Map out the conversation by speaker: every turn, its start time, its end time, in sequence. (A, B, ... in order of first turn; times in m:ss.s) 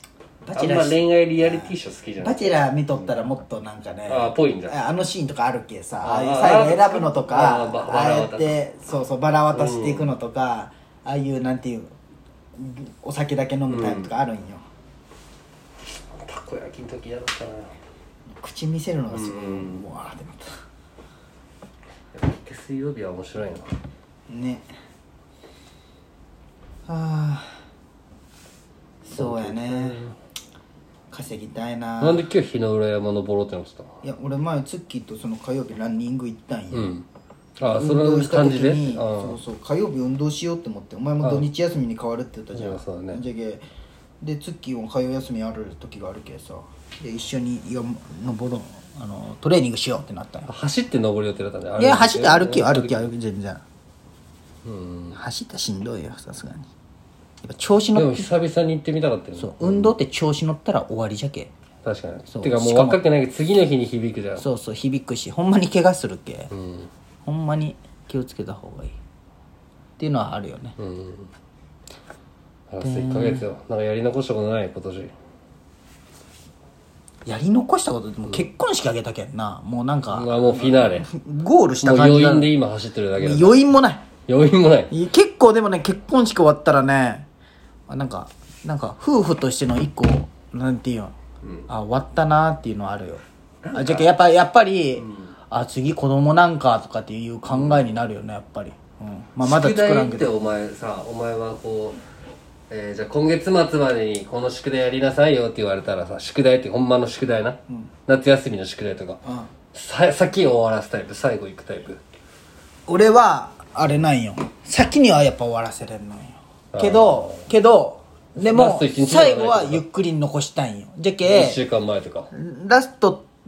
0:00.4-0:11.9 A
0:00.6-0:03.1 B
0:04.1-0:04.8 B
0:06.0-0:08.6 B
0:09.5-0:10.1 B
0:12.6-0:14.6 A
0:13.7-0:14.1 B
0:15.9-0:17.7 B
0:18.3-0:20.5 A
0:19.1-0:19.9 B
0:22.1-0:23.7 B
0:24.3-0:24.7 A
0:26.9-0:27.5 A
0:29.0-0:30.0 A
0:29.2-0:30.2 B
0:31.1-0:32.3 A
0:32.0-0:34.0 B
0:34.0-0:36.9 A
0:36.7-0:37.1 B
0:37.6-0:39.4 B
0:37.7-0:43.6 A
0:41.2-0:41.5 B
0:42.5-0:43.2 B
0:44.2-0:50.5 A
0:50.5-0:53.1 B
0:51.8-0:53.6 A
0:54.6-0:55.2 B
0:55.2-0:56.7 A
0:57.4-0:58.3 A
0:58.0-0:59.9 B
0:59.4-1:01.5 A
1:01.8-1:04.5 B
1:02.3-1:03.0 A
1:04.4-1:06.5 A
1:06.5-1:06.9 B
1:07.2-1:09.0 A
1:10.0-1:10.8 A
1:10.8-1:11.3 B
1:12.7-1:15.1 B
1:12.8-1:13.5 A
1:17.2-1:22.5 A
1:20.1-1:21.1 B
1:21.8-1:23.6 B
1:23.2-1:24.0 A
1:24.3-1:24.9 B
1:24.9-1:27.3 A
1:27.9-1:31.2 A
1:31.7-1:33.2 A
1:33.6-1:34.1 B
1:33.7-1:40.3 A
1:35.0-1:35.3 B
1:37.5-1:37.9 B
1:39.4-1:42.0 B
1:42.7-1:49.2 B
1:49.2-1:49.5 A
1:49.7-1:52.0 B
1:52.9-2:01.6 A
1:56.7-1:57.4 B
1:58.4-1:59.8 B
2:01.2-2:02.3 B
2:02.3-2:03.3 A